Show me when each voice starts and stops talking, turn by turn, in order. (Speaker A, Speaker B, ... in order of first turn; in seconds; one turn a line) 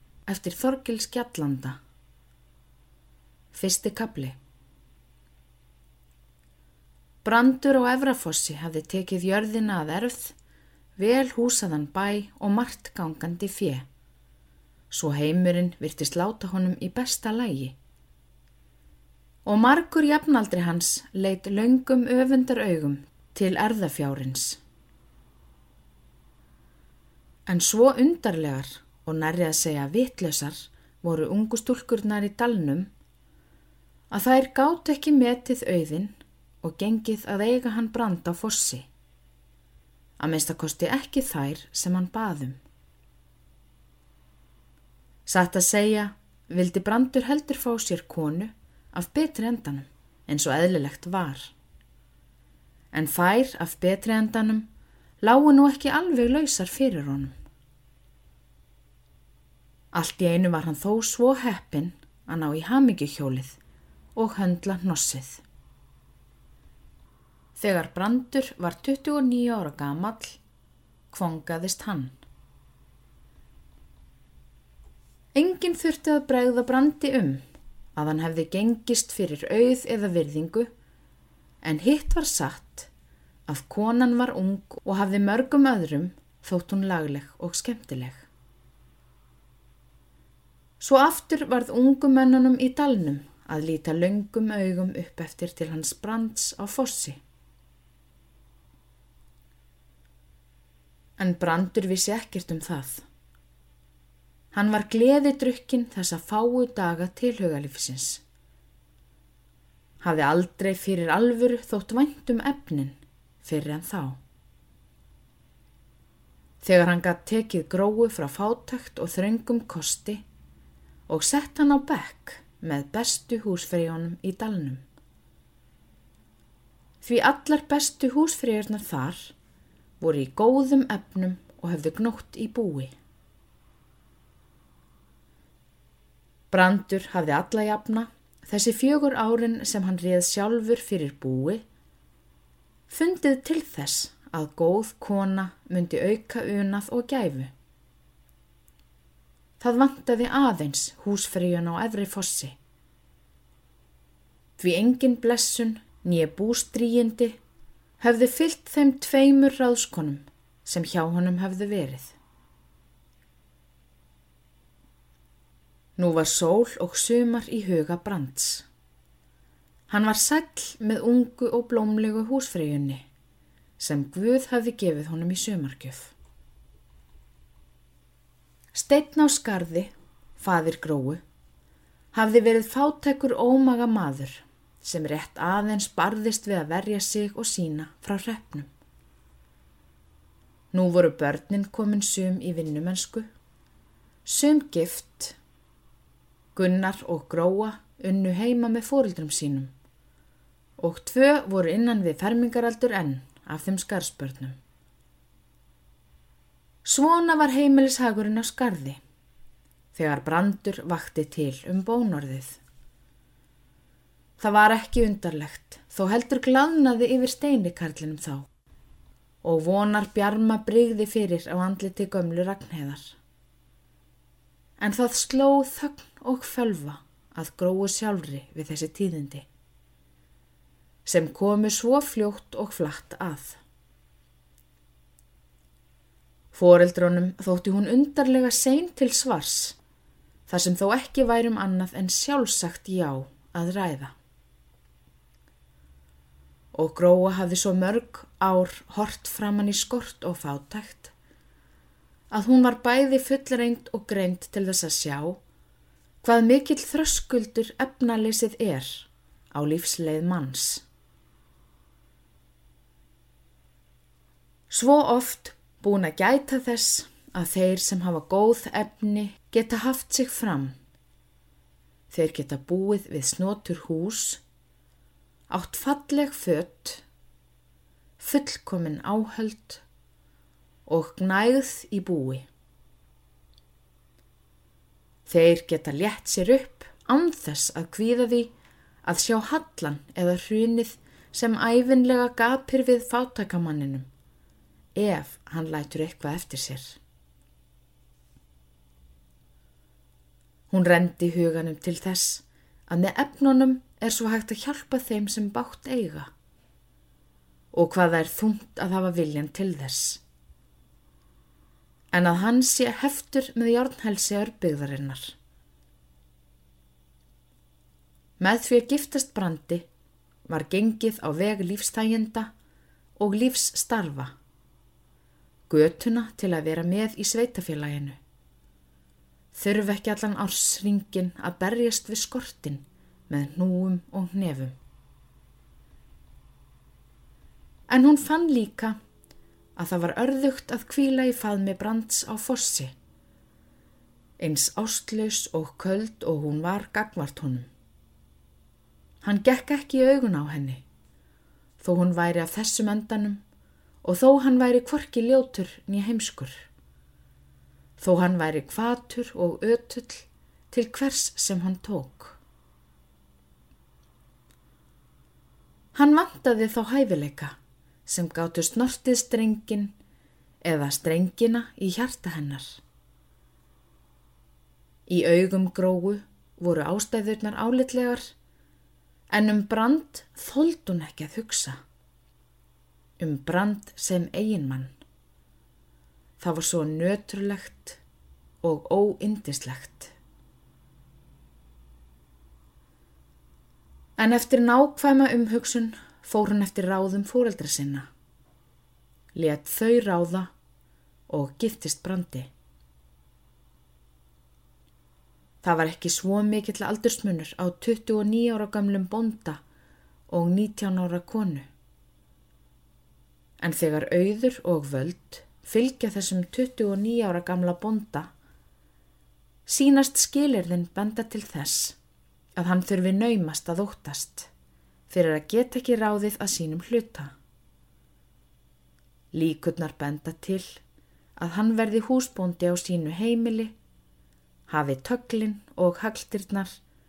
Speaker A: 0.3-1.8
Speaker A: 3.5-4.3
Speaker A: 7.2-10.3
Speaker A: 11.0-13.8
Speaker A: 14.9-17.8
Speaker A: 19.4-24.6
Speaker A: 27.4-32.9
Speaker A: 34.1-38.9
Speaker A: 40.2-42.6
Speaker A: 45.2-51.5
Speaker A: 52.9-54.7
Speaker A: 55.2-57.4
Speaker A: 59.9-63.6
Speaker A: 64.2-65.4
Speaker A: 67.5-70.4
Speaker A: 71.1-72.1
Speaker A: 75.3-77.4
Speaker A: 77.9-80.7
Speaker A: 81.6-82.9
Speaker A: 83.5-88.2
Speaker A: 90.8-97.2
Speaker A: 101.2-103.0
Speaker A: 104.5-108.2
Speaker A: 110.0-114.2
Speaker A: 116.6-120.2
Speaker A: 121.1-124.8
Speaker A: 127.0-129.3
Speaker A: 130.0-132.9
Speaker A: 136.5-141.6
Speaker A: 142.9-147.5
Speaker A: 149.6-152.6
Speaker A: 154.6-157.4
Speaker A: 158.0-162.1
Speaker A: 166.0-168.7
Speaker A: 169.9-173.1
Speaker A: 173.8-176.1
Speaker A: 178.7-181.2
Speaker A: 182.1-188.7
Speaker A: 190.7-193.3
Speaker A: 194.2-195.4
Speaker A: 196.5-199.7
Speaker A: 200.8-204.6
Speaker A: 206.8-209.0
Speaker A: 209.9-212.6
Speaker A: 214.4-218.4
Speaker A: 219.4-223.2
Speaker A: 224.8-229.5
Speaker A: 231.0-233.6
Speaker A: 236.5-239.8
Speaker A: 240.5-244.1
Speaker A: 246.7-251.1
Speaker A: 252.3-255.4
Speaker A: 256.2-260.8
Speaker A: 264.7-270.7
Speaker A: 272.1-274.4
Speaker A: 275.5-277.0
Speaker A: 278.2-279.8
Speaker A: 280.9-282.5
Speaker A: 285.2-288.5
Speaker A: 289.0-294.1
Speaker A: 294.9-297.0
Speaker A: 300.7-306.3
Speaker A: 307.7-310.2
Speaker A: 312.1-315.3
Speaker A: 318.4-319.9
Speaker A: 320.5-322.5
Speaker A: 323.2-324.3
Speaker A: 325.7-328.2
Speaker A: 329.5-334.8
Speaker A: 337.9-339.0
Speaker A: 339.8-342.9
Speaker A: 344.4-347.7
Speaker A: 349.2-350.8
Speaker A: 351.8-353.4
Speaker A: 354.0-356.7
Speaker A: 358.0-362.4
Speaker A: 365.9-369.9
Speaker A: 370.6-372.8
Speaker A: 375.1-378.3
Speaker A: 379.3-381.8
Speaker A: 383.2-384.9
Speaker A: 386.4-388.0
Speaker A: 388.6-390.1
Speaker A: 394.2-398.1
Speaker A: 399.3-400.5
Speaker A: 401.3-402.5
Speaker A: 405.6-409.6
Speaker A: 410.3-411.6
Speaker A: 413.6-418.3
Speaker A: 419.6-422.0
Speaker A: 422.6-424.5
Speaker A: 425.1-427.3
Speaker A: 429.3-430.8
Speaker A: 431.4-433.7
Speaker A: 434.7-436.8